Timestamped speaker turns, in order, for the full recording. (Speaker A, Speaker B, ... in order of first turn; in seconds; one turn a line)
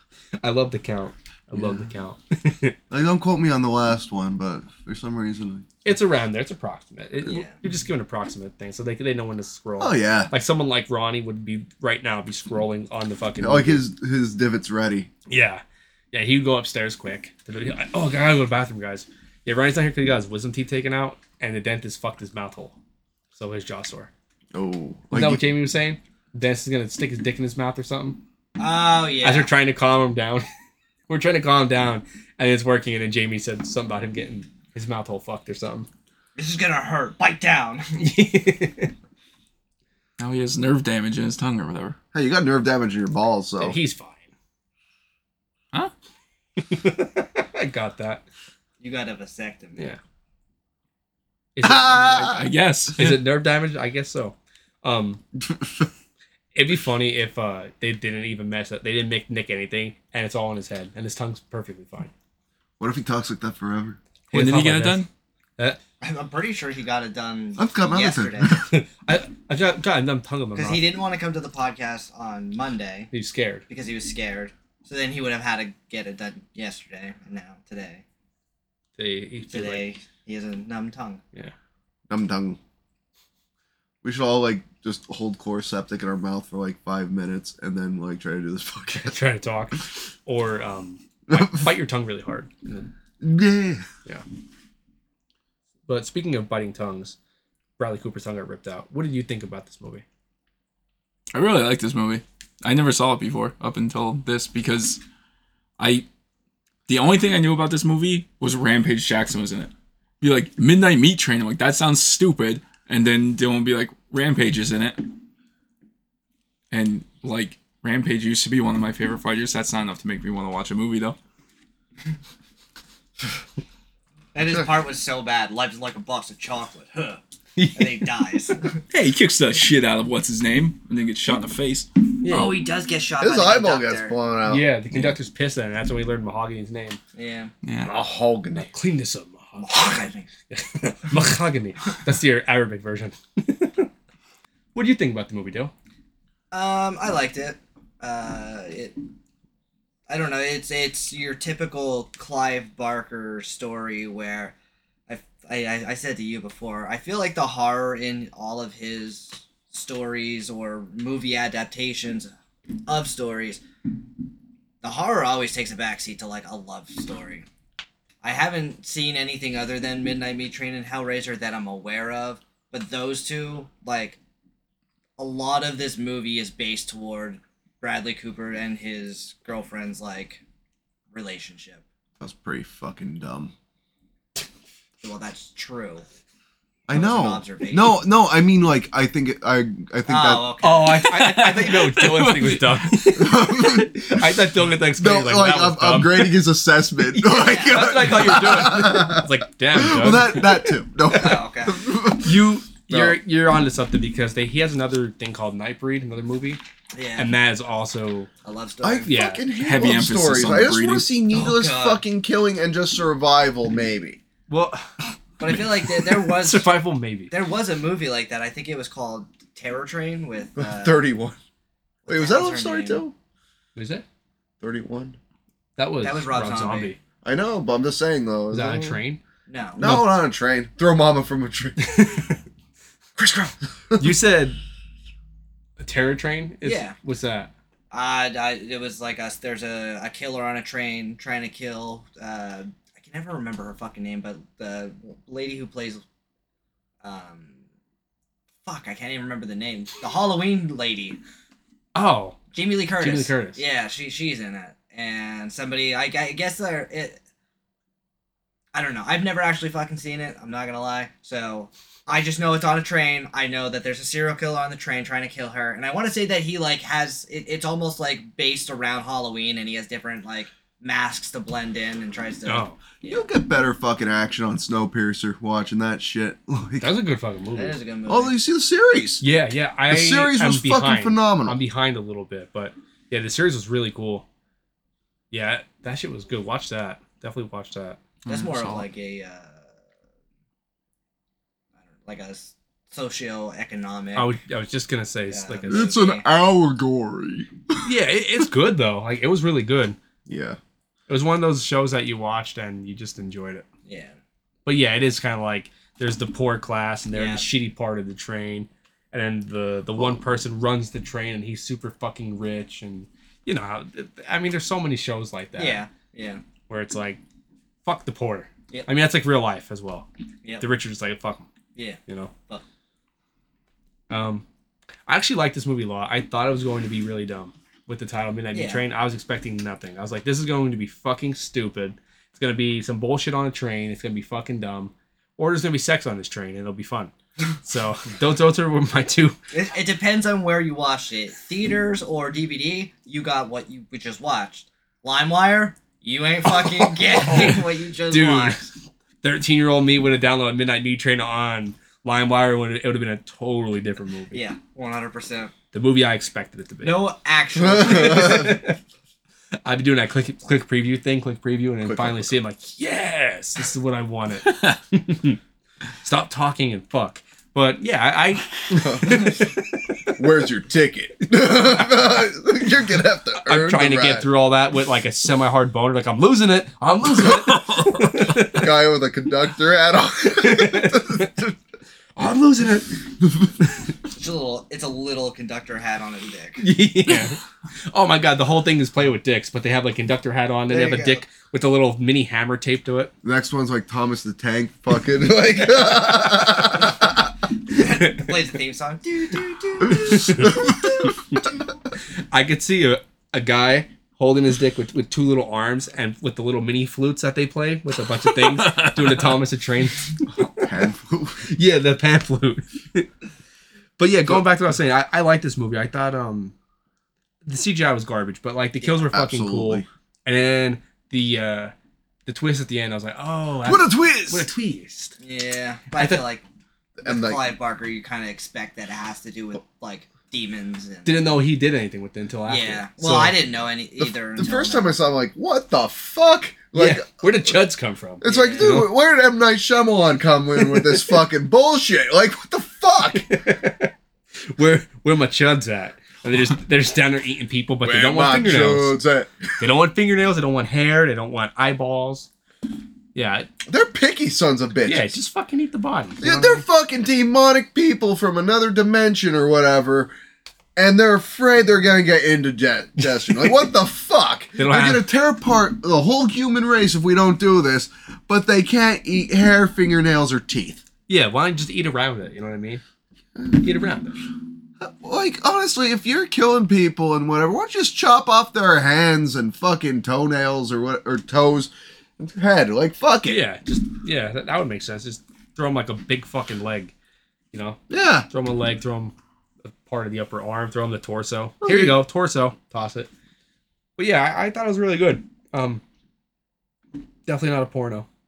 Speaker A: 0.4-2.8
Speaker B: 1.6-1.9
Speaker B: 2.9-5.7
Speaker A: 5.8-13.8
Speaker C: 7.2-7.5
Speaker B: 9.8-10.3
Speaker B: 13.4-15.1
Speaker A: 15.3-22.8
Speaker A: 23.3-24.1
Speaker B: 24.5-25.4
Speaker A: 25.1-28.2
Speaker C: 28.6-29.5
Speaker A: 29.2-30.4
Speaker A: 31.1-35.9
Speaker C: 36.4-38.0
Speaker A: 38.0-38.9
Speaker D: 40.2-42.0
Speaker B: 42.1-43.8
Speaker A: 43.6-44.3
Speaker A: 46.6-48.2
Speaker C: 48.8-49.9
Speaker A: 51.5-52.4
Speaker B: 51.6-52.5
Speaker D: 52.3-53.2
Speaker A: 53.0-55.2
Speaker B: 55.4-55.9
Speaker A: 56.5-62.1
Speaker B: 62.8-64.0
Speaker A: 64.3-65.1
Speaker D: 64.3-65.1
Speaker C: 66.0-68.6
Speaker B: 67.6-68.6
Speaker A: 68.5-70.8
Speaker C: 70.5-73.1
Speaker A: 73.1-73.6
Speaker C: 73.7-78.0
Speaker A: 79.0-79.9
Speaker C: 79.5-81.2
Speaker B: 82.1-82.6
Speaker B: 84.0-89.2
Speaker A: 89.0-92.9
Speaker B: 91.3-91.7
Speaker B: 93.2-93.9
Speaker A: 95.9-97.2
Speaker A: 97.8-100.0
Speaker D: 101.3-105.0
Speaker D: 105.8-106.1
Speaker D: 106.9-115.1
Speaker D: 116.7-121.2
Speaker C: 124.3-127.2
Speaker A: 127.6-128.1
Speaker C: 127.8-128.8
Speaker D: 128.9-132.6
Speaker A: 132.2-132.5
Speaker C: 132.3-134.2
Speaker B: 133.2-134.6
Speaker A: 134.5-137.0
Speaker C: 137.2-137.5
Speaker D: 137.6-138.0
Speaker B: 137.8-138.7
Speaker A: 138.6-143.9
Speaker C: 139.6-140.3
Speaker A: 144.7-145.7
Speaker C: 146.5-149.0
Speaker C: 150.1-154.5
Speaker C: 155.1-162.3
Speaker C: 162.9-163.6
Speaker C: 164.8-167.5
Speaker C: 168.2-174.2
Speaker C: 175.2-180.4
Speaker C: 181.1-181.8
Speaker B: 182.2-183.5
Speaker C: 185.0-186.1
Speaker B: 186.9-190.5
Speaker C: 186.9-188.0
Speaker C: 190.1-191.0
Speaker A: 190.6-196.4
Speaker D: 191.0-193.1
Speaker B: 193.2-194.4
Speaker B: 195.0-203.2
Speaker A: 197.1-200.7
Speaker C: 197.3-198.3
Speaker C: 201.1-201.8
Speaker A: 202.2-206.6
Speaker C: 206.9-207.3
Speaker A: 207.2-208.3
Speaker C: 208.4-209.1
Speaker B: 208.8-214.2
Speaker A: 209.1-209.4
Speaker D: 209.6-211.1
Speaker C: 211.3-212.0
Speaker A: 214.5-215.0
Speaker C: 215.4-216.7
Speaker A: 215.9-217.3
Speaker C: 217.3-221.0
Speaker B: 220.6-221.4
Speaker C: 222.1-223.0
Speaker B: 222.1-223.1
Speaker A: 223.8-224.0
Speaker B: 224.6-225.2
Speaker A: 225.8-227.0
Speaker C: 226.0-226.9
Speaker B: 227.2-229.0
Speaker A: 228.5-229.2
Speaker C: 229.5-229.8
Speaker B: 229.8-232.2
Speaker A: 229.8-230.1
Speaker A: 231.8-232.4
Speaker B: 233.2-234.2
Speaker A: 234.0-234.6
Speaker A: 235.8-237.5
Speaker C: 236.6-236.9
Speaker C: 237.9-246.0
Speaker C: 247.0-247.5
Speaker C: 248.7-251.2
Speaker A: 251.9-252.4
Speaker C: 252.5-257.2
Speaker A: 253.0-253.6
Speaker C: 258.7-273.3
Speaker A: 272.5-272.8
Speaker B: 273.1-276.9
Speaker A: 276.8-277.8
Speaker C: 277.6-278.4
Speaker B: 278.1-279.2
Speaker A: 279.2-284.3
Speaker B: 279.9-281.6
Speaker A: 285.3-288.0
Speaker D: 288.2-288.9
Speaker C: 288.3-289.7
Speaker C: 292.0-294.3
Speaker A: 294.2-295.9
Speaker C: 295.3-296.2
Speaker B: 295.7-297.9
Speaker A: 297.9-300.0
Speaker B: 300.3-300.6
Speaker A: 301.1-303.7
Speaker C: 303.9-304.2
Speaker A: 304.7-315.8
Speaker C: 307.1-307.4
Speaker C: 315.6-316.4
Speaker A: 316.7-317.2
Speaker A: 317.9-320.1
Speaker A: 320.6-321.5
Speaker C: 321.8-322.6
Speaker A: 322.1-322.3
Speaker A: 324.1-324.4
Speaker A: 325.1-339.4
Speaker C: 328.5-328.8
Speaker C: 339.5-348.7
Speaker A: 347.2-354.4
Speaker C: 354.3-355.5
Speaker A: 355.7-357.0
Speaker C: 356.8-358.6
Speaker B: 357.6-358.6
Speaker A: 357.8-358.8
Speaker A: 359.6-365.4
Speaker B: 361.8-362.3
Speaker D: 364.5-364.8
Speaker A: 366.0-370.2
Speaker B: 368.7-369.5
Speaker B: 370.2-374.3
Speaker A: 373.4-378.7
Speaker B: 378.3-381.5
Speaker A: 380.4-381.4
Speaker A: 382.2-383.1
Speaker B: 383.2-383.5
Speaker C: 384.1-386.6
Speaker A: 386.6-393.1
Speaker C: 390.7-391.2
Speaker B: 393.2-397.2
Speaker C: 397.7-401.2
Speaker A: 400.1-400.6
Speaker B: 400.3-400.7
Speaker A: 402.3-410.7
Speaker D: 408.3-409.4
Speaker B: 410.4-411.5
Speaker A: 411.4-413.1
Speaker A: 414.0-416.5
Speaker A: 417.4-421.7
Speaker B: 419.1-419.9
Speaker A: 422.3-425.1
Speaker B: 423.6-424.5
Speaker C: 425.2-426.4
Speaker A: 425.9-426.2
Speaker B: 427.0-427.4
Speaker C: 427.0-431.3
Speaker A: 431.1-433.4
Speaker C: 432.5-434.9
Speaker B: 434.0-437.6
Speaker A: 436.7-438.9
Speaker B: 438.2-443.3
Speaker C: 438.2-438.8
Speaker A: 440.7-441.1
Speaker A: 443.1-449.0
Speaker B: 447.8-449.6
Speaker A: 449.6-452.3
Speaker A: 453.1-453.5
Speaker B: 453.7-455.1
Speaker A: 454.9-456.6
Speaker B: 456.2-460.1
Speaker B: 460.8-470.8
Speaker A: 464.6-465.1
Speaker A: 471.1-472.8
Speaker A: 473.5-474.2
Speaker B: 474.8-483.4
Speaker A: 483.3-486.9
Speaker A: 487.5-493.1
Speaker B: 487.9-488.3
Speaker B: 491.6-492.0
Speaker A: 494.0-495.8
Speaker A: 497.3-498.1